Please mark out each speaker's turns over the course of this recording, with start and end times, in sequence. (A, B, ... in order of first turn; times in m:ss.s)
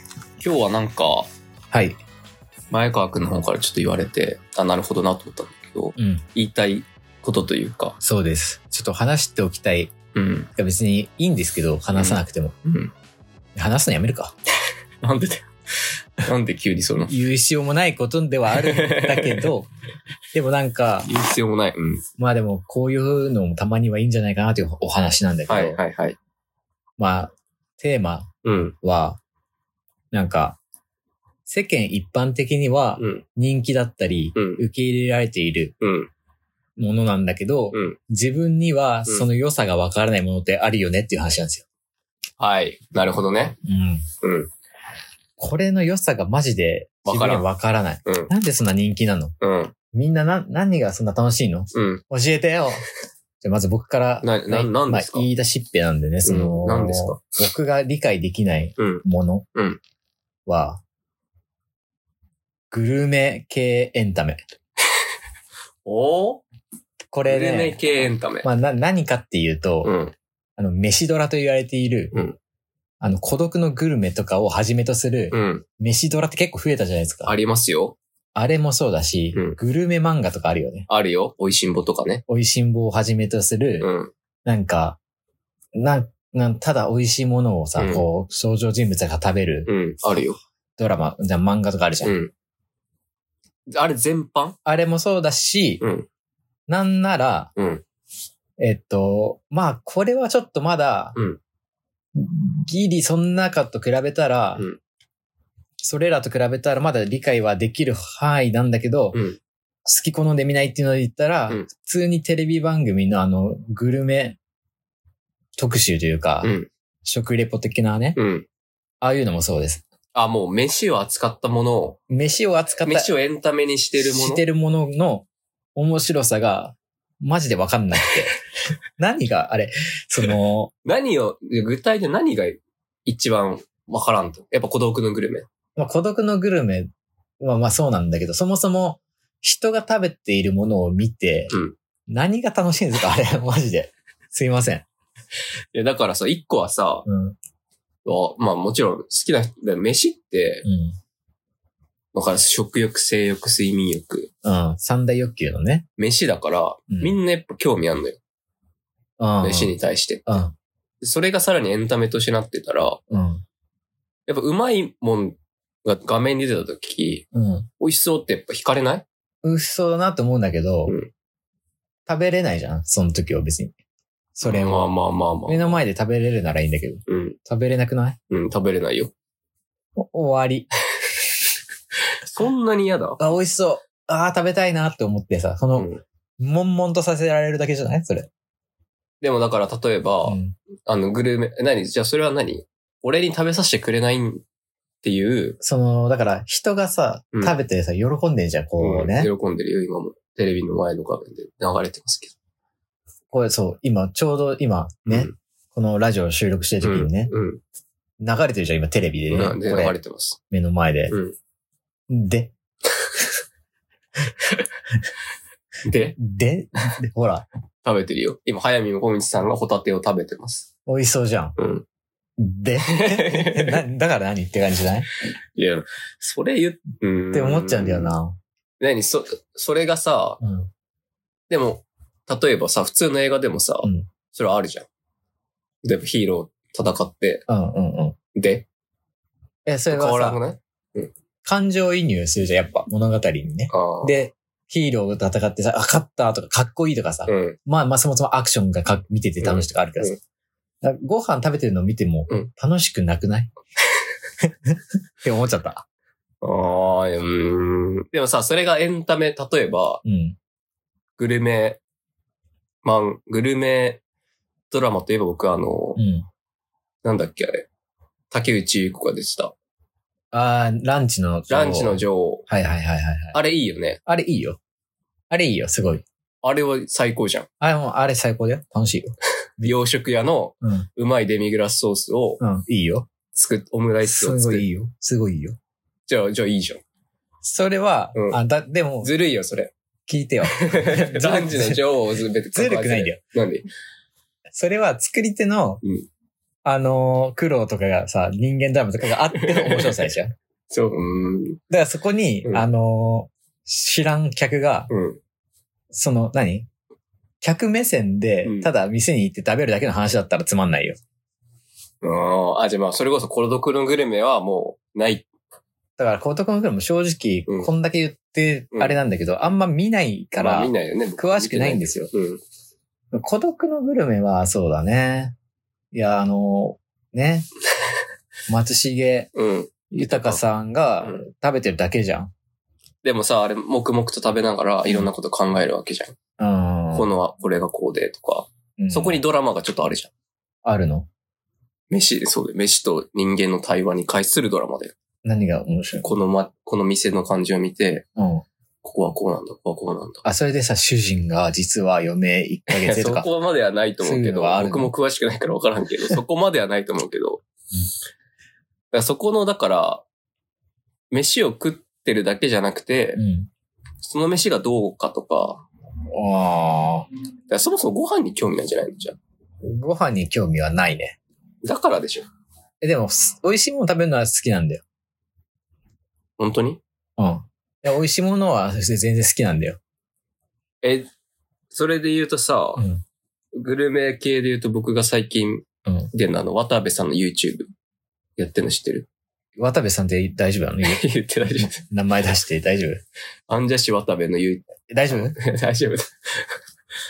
0:00.4-0:01.3 A
0:01.7-0:02.0 B
0:02.7-0:08.0 A
0:06.0-0:06.2 B
0:08.0-0:09.9 B
0:10.1-0:10.5 A
0:10.6-0:12.5 B
0:11.9-0:12.9 A
0:13.6-0:14.3 B
0:15.0-0:15.5 A
0:16.2-0:17.1 A
0:17.1-0:19.7 B
0:18.5-0:19.5 A
0:20.3-0:21.1 B
0:21.0-0:22.0 A
0:22.2-0:25.8 B
0:25.5-0:26.2 A
0:27.0-0:29.2 B
0:28.4-0:28.7 A
0:30.1-0:30.6 B
0:31.5-0:35.7 B
0:33.0-0:33.2 A
0:34.3-0:34.6 A
0:35.8-0:36.1 A
0:36.8-0:41.6 B
0:37.7-0:38.0 A
0:42.4-0:43.6 A
0:43.6-0:44.0 B
0:44.2-0:44.5 A
0:45.4-0:49.3 B
0:47.0-0:47.5 A
0:48.0-0:48.3 A
0:49.4-0:49.7 A
0:49.9-0:52.8 B
0:51.7-0:52.0 A
0:53.4-0:59.4 B
0:54.2-0:55.3 A
0:56.2-0:57.2 A
0:58.8-0:59.0 A
0:59.5-0:59.8 A
1:00.4-1:00.8 B
1:02.7-1:04.4 B
1:05.8-1:06.4 A
1:07.1-1:07.8 B
1:07.2-1:08.5 A
1:08.4-1:09.9 B
1:09.8-1:10.1 A
1:10.6-1:12.1 B
1:13.0-1:17.3 B
1:15.3-1:15.6 A
1:17.2-1:18.0 A
1:18.3-1:20.9 B
1:19.3-1:19.6 A
1:20.9-1:22.2 A
1:22.3-1:23.9 B
1:23.8-1:24.1 A
1:24.4-1:25.0 B
1:25.7-1:29.7 B
1:27.8-1:28.0 A
1:29.7-1:30.4 A
1:30.8-1:32.1 B
1:32.0-1:32.3 A
1:33.7-1:34.6 A
1:34.6-1:35.8 B
1:35.8-1:36.1 A
1:36.7-1:37.5 B
1:37.6-1:37.8 A
1:38.6-1:41.2 B
1:42.1-1:44.6 B
1:45.8-1:49.2 B
1:49.8-1:54.4 B
1:55.6-1:56.5 B
1:56.4-1:56.7 A
1:57.0-1:58.2 B
1:58.2-1:58.4 A
1:59.0-1:59.8 B
2:00.1-2:02.0 A
2:02.1-2:03.1 B
2:02.8-2:04.4 A
2:04.0-2:08.3 B
2:09.0-2:10.7 B
2:10.8-2:15.5 A
2:15.8-2:16.9 B
2:17.4-2:21.5 B
2:22.1-2:24.8 B
2:25.7-2:27.0 A
2:27.0-2:27.4 B
2:28.0-2:30.6 A
2:30.6-2:31.0 B
2:32.1-2:34.3 A
2:34.4-2:35.8 B
2:36.0-2:38.2 A
2:36.9-2:37.2 B
2:39.2-2:39.7 B
2:39.4-2:40.4 A
2:40.3-2:40.5 B
2:41.0-2:43.0 A
2:43.1-2:43.4 B
2:44.3-2:47.2 A
2:47.3-2:47.7 B
2:47.8-2:49.0 A
2:49.4-2:50.9 B
2:52.1-2:53.7 B
2:54.3-2:54.9 B
2:54.4-2:55.8 A
2:55.5-2:58.2 B
2:57.1-2:57.4 A
2:58.3-2:59.1 A
3:00.0-3:00.7 B
3:02.3-3:03.3 A
3:03.2-3:08.3 B
3:05.8-3:06.0 A
3:09.2-3:14.4 A
3:10.2-3:10.6 B
3:15.0-3:15.6 A
3:15.6-3:19.3 B
3:18.8-3:22.3 A
3:23.3-3:27.3 B
3:25.0-3:25.3 A
3:26.8-3:27.6 A
3:28.2-3:30.0 B
3:29.3-3:30.4 A
3:30.5-3:31.1 B
3:31.1-3:31.3 A
3:32.1-3:32.5 B
3:34.4-3:34.7 A
3:35.8-3:36.2 A
3:36.2-3:37.4 B
3:37.8-3:40.6 A
3:40.8-3:41.6 B
3:41.6-3:41.8 A
3:42.4-3:45.1 B
3:42.8-3:43.8 A
3:45.5-3:48.1 A
3:47.3-3:48.4 B
3:48.8-3:50.4 A
3:50.4-3:50.7 B
3:51.5-3:54.9 A
3:55.8-3:57.4 A
3:57.5-3:58.2 B
3:58.3-3:58.6 A
3:59.6-4:00.4 B
3:59.9-4:01.1 A
4:01.4-4:10.2 B
4:03.7-4:04.2 A
4:07.3-4:07.6 A
4:09.4-4:10.2 A
4:10.8-4:13.5 B
4:14.4-4:15.8 B
4:16.4-4:20.0 A
4:20.0-4:20.4 B
4:21.2-4:21.8 A
4:22.8-4:24.0 A
4:24.7-4:26.0 A
4:26.0-4:26.2 B
4:27.0-4:27.7 A
4:28.3-4:29.5 A
4:30.3-4:33.4 B
4:31.5-4:32.4 A
4:33.3-4:34.0 A
4:34.0-4:34.6 B
4:35.3-4:36.0 B
4:36.4-4:37.5 A
4:37.6-4:39.8 B
4:39.6-4:42.4 A
4:40.6-4:40.9 B
4:42.4-4:43.1 B
4:43.3-4:44.7 A
4:44.0-4:45.6 B
4:46.1-4:46.8 A
4:47.4-4:49.1 B
4:49.0-4:49.7 A
4:50.1-4:51.8 B
4:50.5-4:53.6 A
4:52.5-4:53.2 B
4:54.5-4:55.8 B
4:56.6-5:00.3 B
4:59.3-5:00.1 A
5:00.7-5:01.6 A
5:01.7-5:04.9 B
5:04.9-5:05.2 A
5:05.9-5:06.7 B
5:07.4-5:11.0 B
5:08.4-5:08.7 A
5:12.0-5:15.2 A
5:16.0-5:22.1 B
5:18.7-5:19.0 A
5:20.4-5:22.4 A
5:23.1-5:25.3 B
5:25.9-5:27.5 B
5:28.5-5:29.3 B
5:29.3-5:30.4 A
5:29.9-5:32.3 B
5:33.0-5:36.1 A
5:36.4-5:37.1 B
5:36.9-5:40.1 A
5:38.8-5:39.2 B
5:40.6-5:41.1 B
5:41.9-5:44.9 A
5:45.2-5:46.1 B
5:46.0-5:48.0 A
5:48.2-5:48.4 B
5:48.8-5:50.2 A
5:50.2-5:53.3 B
5:52.7-5:57.4 A
5:54.0-5:54.9 B
5:58.9-6:00.0 A
6:01.1-6:03.2 A
6:03.2-6:03.5 B
6:04.0-6:05.6 A
6:06.1-6:07.1 B
6:07.5-6:09.2 A
6:09.6-6:11.2 B
6:11.6-6:12.3 A
6:12.8-6:14.8 B
6:16.4-6:16.8 A
6:17.2-6:19.8 B
6:20.8-6:21.1 A
6:21.7-6:22.8 A
6:22.8-6:23.0 B
6:23.6-6:27.7 A
6:25.8-6:26.1 B
6:28.4-6:29.1 A
6:29.6-6:33.0 B
6:30.8-6:31.8 A
6:33.5-6:36.5 A
6:34.9-6:35.4 B